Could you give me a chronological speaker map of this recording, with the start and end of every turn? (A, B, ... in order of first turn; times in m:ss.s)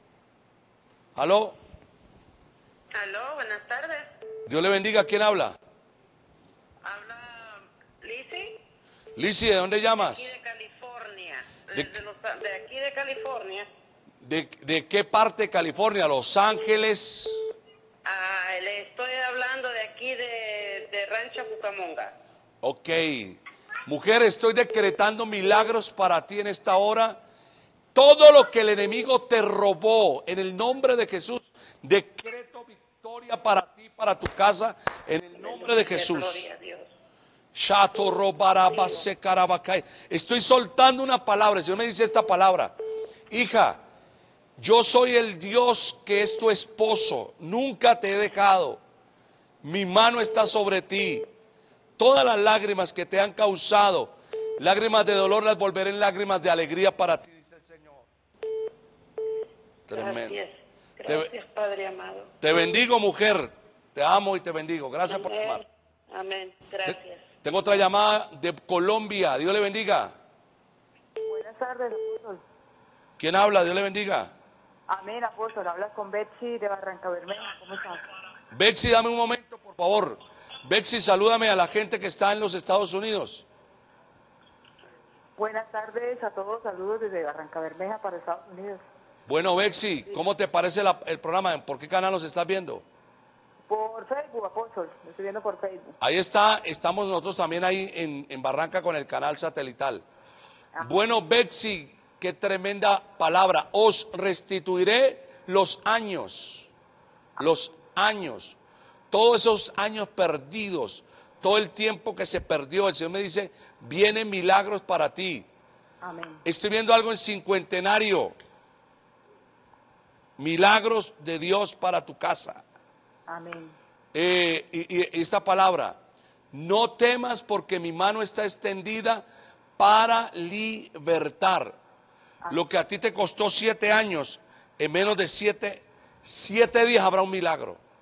0:01.2-0:01.6 A
0:02.9-0:04.1 B
0:04.5-0:05.6 A
0:06.8-0:08.6 B
0:09.2-0:10.3 A
0:10.0-0:13.7 B
0:11.7-0:12.0 A
0:14.2-0:17.4 A
0:18.0-0:22.2 B
0:22.6-0:27.2 A
0:27.9-0:36.5 A
0:35.3-0:36.9 B
0:37.6-0:42.8 A
0:43.3-0:43.8 A
0:44.6-0:48.8 A
0:49.6-0:51.3 A
0:52.0-0:58.0 A
0:59.9-1:00.4 A
0:59.9-1:02.3 B
1:01.0-1:01.3 A
1:02.4-1:05.6 A
1:05.1-1:07.2 B
1:06.8-1:10.2 A
1:11.3-1:12.4 C
1:13.2-1:14.3 A
1:14.9-1:18.0 C
1:18.5-1:23.4 A
1:25.4-1:28.8 C
1:29.3-1:32.8 A
1:33.7-1:35.9 C
1:36.0-1:40.0 A
1:40.8-1:46.7 A
1:47.4-1:48.6 A
1:49.1-1:55.5 A
1:56.0-1:56.4 C
1:56.4-1:58.4 A
2:00.4-2:02.6 A
2:03.3-2:03.8 C
2:04.1-2:06.0 A
2:06.5-2:09.2 A
2:09.8-2:11.8 A
2:12.5-2:17.8 A